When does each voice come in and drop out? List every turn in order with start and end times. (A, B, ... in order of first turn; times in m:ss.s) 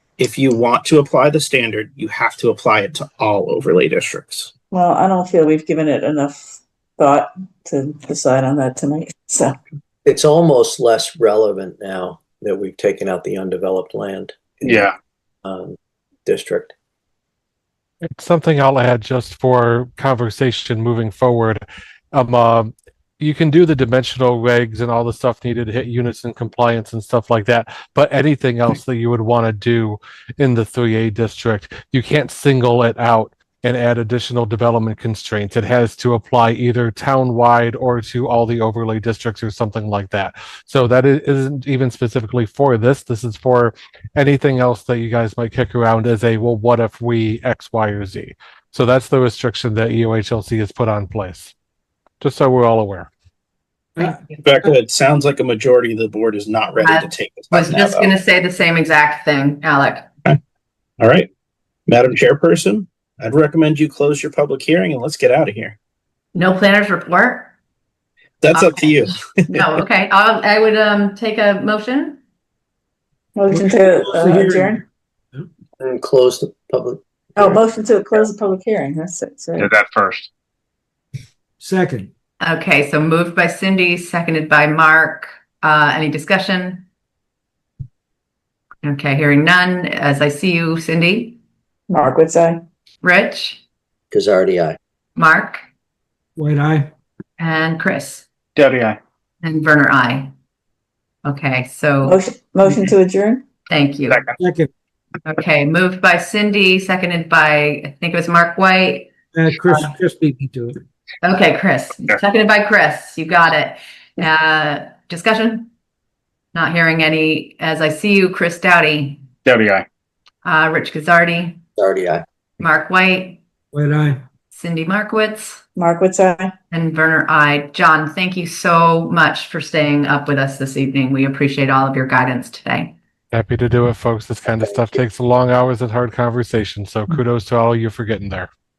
0:00.2-0:04.5 A
0:04.7-0:09.6 B
0:10.0-0:14.9 C
0:14.7-0:14.9 D
0:15.4-0:16.7 C
0:18.1-0:51.5 E
0:52.2-0:53.1 E
0:54.0-0:58.1 A
0:56.8-1:00.0 F
1:01.0-1:01.3 A
1:01.9-1:05.8 A
1:06.3-1:07.5 F
1:08.4-1:09.6 A
1:08.5-1:08.9 F
1:09.5-1:12.2 F
1:13.3-1:14.8 B
1:13.5-1:14.8 G
1:15.8-1:17.6 C
1:17.4-1:19.7 B
1:19.6-1:20.3 D
1:21.6-1:22.1 G
1:22.4-1:26.8 F
1:28.8-1:31.4 F
1:31.9-1:32.6 B
1:33.0-1:33.6 F
1:34.1-1:34.8 C
1:35.2-1:35.6 F
1:36.4-1:36.9 G
1:37.4-1:38.2 F
1:38.6-1:39.0 D
1:39.4-1:40.3 F
1:41.2-1:42.2 F
1:42.0-1:43.4 B
1:43.7-1:44.2 F
1:44.1-1:44.3 D
1:44.4-1:44.7 G
1:45.2-1:49.1 F
1:49.3-1:50.8 G
1:51.2-1:55.7 F
1:56.5-1:59.2 F
1:59.4-1:59.8 D
2:00.4-2:01.6 F
2:01.8-2:02.2 C
2:02.6-2:03.4 F
2:03.7-2:04.2 G
2:04.5-2:05.6 F
2:05.8-2:06.5 B
2:06.7-2:12.9 F
2:13.3-2:18.5 E